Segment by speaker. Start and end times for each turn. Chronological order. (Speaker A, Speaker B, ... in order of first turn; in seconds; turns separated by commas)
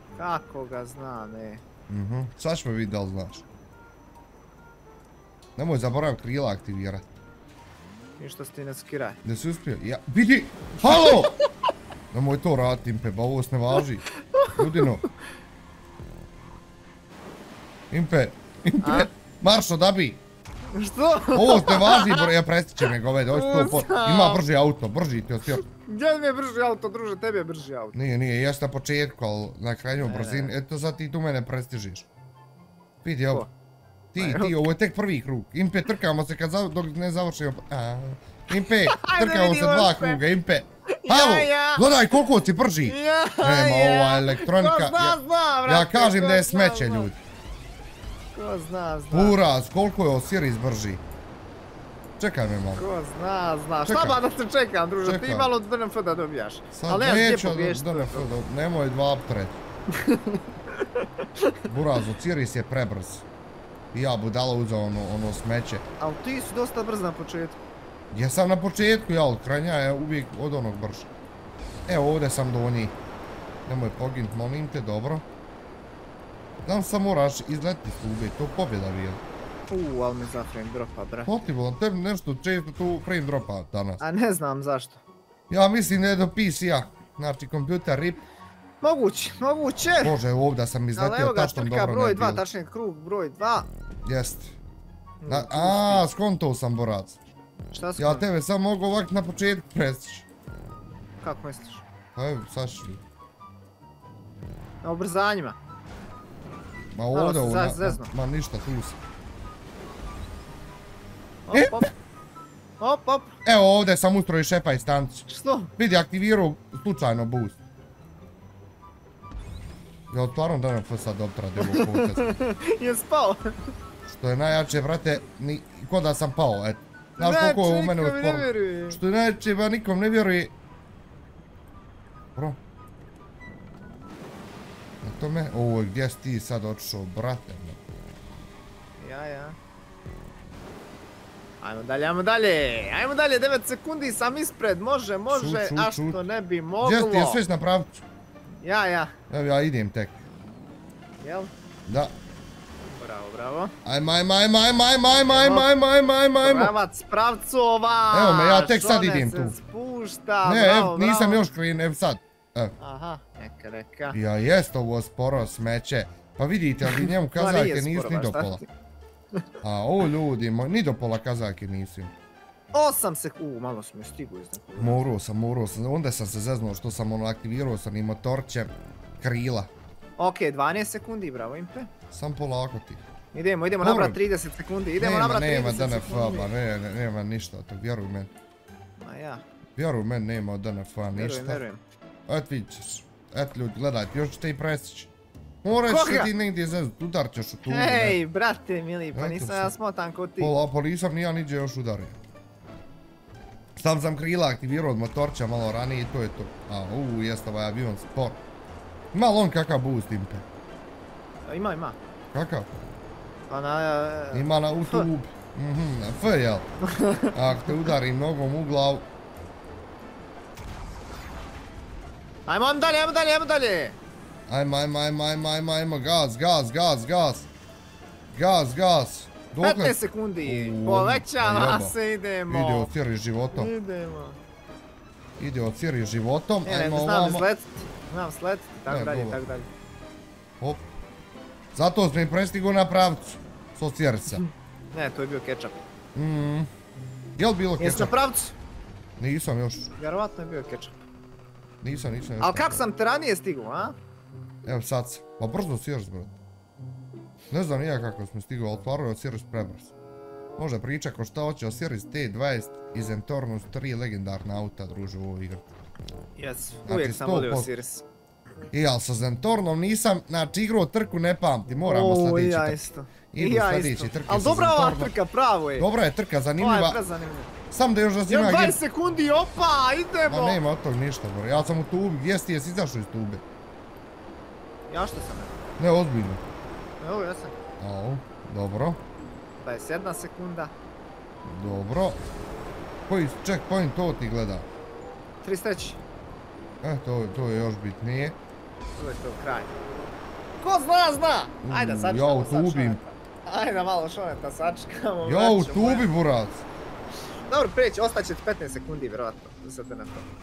Speaker A: 0.2-1.6, Speaker B: 1.9-3.4, Speaker B: 5.6-7.0, Speaker A: 8.2-9.2, Speaker B: 9.2-11.4, Speaker A: 10.9-11.5, Speaker B: 12.1-15.0, Speaker A: 14.3-15.1, Speaker B: 17.9-20.2, Speaker A: 18.8-19.1, Speaker A: 20.7-22.3, Speaker B: 21.3-25.6, Speaker A: 23.3-24.4, Speaker A: 25.5-28.0, Speaker B: 27.9-32.1, Speaker A: 30.0-30.5, Speaker B: 33.0-33.5, Speaker B: 34.1-47.2, Speaker A: 34.2-34.7, Speaker A: 38.7-40.2, Speaker A: 41.0-42.2, Speaker A: 42.8-47.1, Speaker A: 48.3-49.4, Speaker B: 49.1-51.0, Speaker B: 52.2-52.9, Speaker A: 52.8-58.3, Speaker B: 53.8-54.2, Speaker B: 55.0-55.5, Speaker B: 56.7-59.6, Speaker A: 59.9-61.5, Speaker B: 61.7-63.2, Speaker B: 63.9-65.8, Speaker A: 66.0-67.6, Speaker B: 68.1-71.1, Speaker B: 71.9-73.0, Speaker B: 73.7-75.2, Speaker B: 76.6-79.2, Speaker A: 79.7-81.3, Speaker B: 81.3-84.0, Speaker A: 84.0-85.0, Speaker B: 85.5-88.2, Speaker A: 88.8-90.2, Speaker B: 90.0-92.4, Speaker A: 91.0-93.7, Speaker B: 94.1-94.5, Speaker A: 95.2-96.1, Speaker B: 95.3-97.2, Speaker A: 97.7-98.3, Speaker B: 98.0-100.3, Speaker A: 101.2-101.8, Speaker B: 102.2-103.0, Speaker A: 104.8-105.6, Speaker B: 107.0-109.0, Speaker A: 107.1-108.1, Speaker A: 111.5-111.9, Speaker B: 111.5-111.8, Speaker A: 112.8-113.3, Speaker B: 113.5-115.3, Speaker A: 115.3-115.7, Speaker B: 115.8-117.6, Speaker B: 120.1-122.2, Speaker A: 121.6-123.6, Speaker B: 124.1-130.5, Speaker A: 127.2-129.0, Speaker B: 135.0-137.8, Speaker A: 139.0-139.6, Speaker A: 141.6-147.4, Speaker B: 145.3-146.2, Speaker B: 146.8-148.0, Speaker A: 148.6-149.1, Speaker B: 149.3-150.2, Speaker A: 151.2-151.5, Speaker B: 151.9-152.1, Speaker A: 152.8-153.7, Speaker B: 153.8-156.7, Speaker A: 155.2-155.7, Speaker A: 156.4-161.4, Speaker B: 158.1-159.6, Speaker B: 160.4-162.7, Speaker A: 162.8-164.2, Speaker B: 164.1-168.6, Speaker A: 166.8-168.7, Speaker B: 169.6-172.1, Speaker A: 172.7-175.0, Speaker B: 174.8-179.7, Speaker A: 180.2-181.9, Speaker B: 182.1-183.0, Speaker A: 183.3-186.5, Speaker B: 183.8-184.2, Speaker B: 185.0-188.3, Speaker A: 189.0-189.4, Speaker B: 189.8-191.6, Speaker A: 191.1-191.8, Speaker B: 192.3-195.1, Speaker B: 195.6-198.2, Speaker A: 195.9-196.3, Speaker A: 197.7-200.6, Speaker B: 199.1-199.7, Speaker B: 200.4-202.2, Speaker B: 203.8-208.4, Speaker B: 209.1-210.4, Speaker A: 211.5-212.0, Speaker B: 212.3-212.7, Speaker A: 213.5-215.1, Speaker B: 214.3-216.7, Speaker A: 216.8-217.9, Speaker B: 217.3-219.1, Speaker A: 222.5-224.0, Speaker B: 224.5-227.5, Speaker B: 228.3-231.9, Speaker A: 229.6-232.9, Speaker B: 232.5-233.7, Speaker A: 233.5-234.4, Speaker B: 235.4-237.5, Speaker A: 236.7-239.7, Speaker B: 238.9-239.4, Speaker B: 241.7-244.4, Speaker A: 244.3-245.8, Speaker B: 246.2-246.7, Speaker B: 247.4-248.1, Speaker A: 247.8-248.5, Speaker B: 249.2-249.9, Speaker A: 250.0-250.9, Speaker B: 251.8-252.8, Speaker A: 252.4-254.0, Speaker B: 254.7-256.4, Speaker B: 257.5-259.9, Speaker B: 260.6-265.7, Speaker A: 266.4-268.0, Speaker B: 266.9-267.7, Speaker B: 268.7-272.8, Speaker A: 271.8-275.9, Speaker B: 273.3-275.1, Speaker B: 275.8-277.0, Speaker A: 276.6-277.5, Speaker B: 277.7-278.8, Speaker A: 278.3-280.6, Speaker B: 280.3-283.4, Speaker A: 284.9-285.5, Speaker B: 285.8-286.4, Speaker A: 287.0-287.5, Speaker B: 287.8-289.0, Speaker A: 289.6-290.7, Speaker B: 291.4-292.2, Speaker B: 293.1-294.7, Speaker A: 295.4-296.0, Speaker B: 296.8-298.4, Speaker A: 299.0-299.7, Speaker A: 300.6-306.1, Speaker B: 301.6-303.0, Speaker B: 305.2-306.6, Speaker A: 307.5-310.3